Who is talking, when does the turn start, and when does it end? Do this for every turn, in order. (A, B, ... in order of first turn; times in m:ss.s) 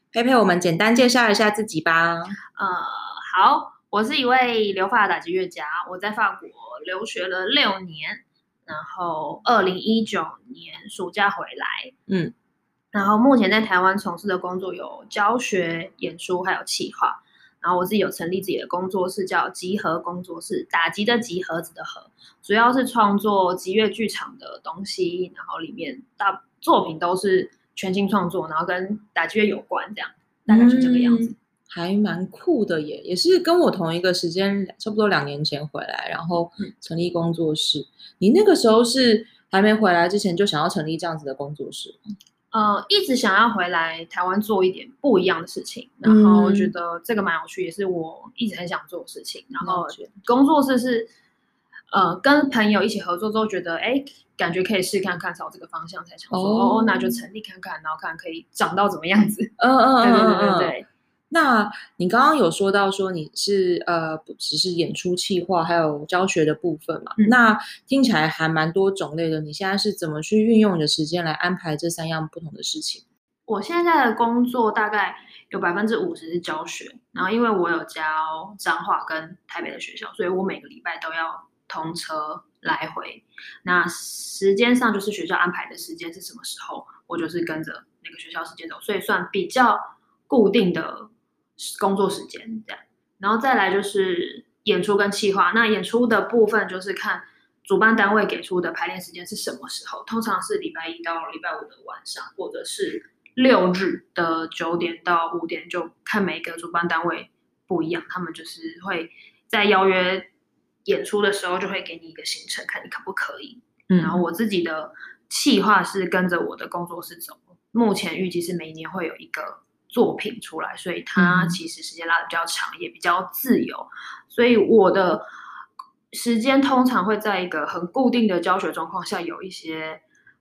0:00.1-0:02.4 A
0:02.6-0:11.9 B
0:12.1-0:12.3 A
0:12.9-0:31.4 B
0:30.5-0:42.0 A
0:42.5-0:51.1 B
0:46.0-0:46.7 A
0:49.6-0:50.1 A
0:51.9-1:00.9 B
0:56.3-0:57.2 A
0:59.6-1:00.7 A
1:01.3-1:13.0 A
1:13.5-1:50.3 B
1:50.8-2:05.2 B
1:53.9-1:54.2 A
2:01.2-2:01.6 A
2:06.1-2:10.0 B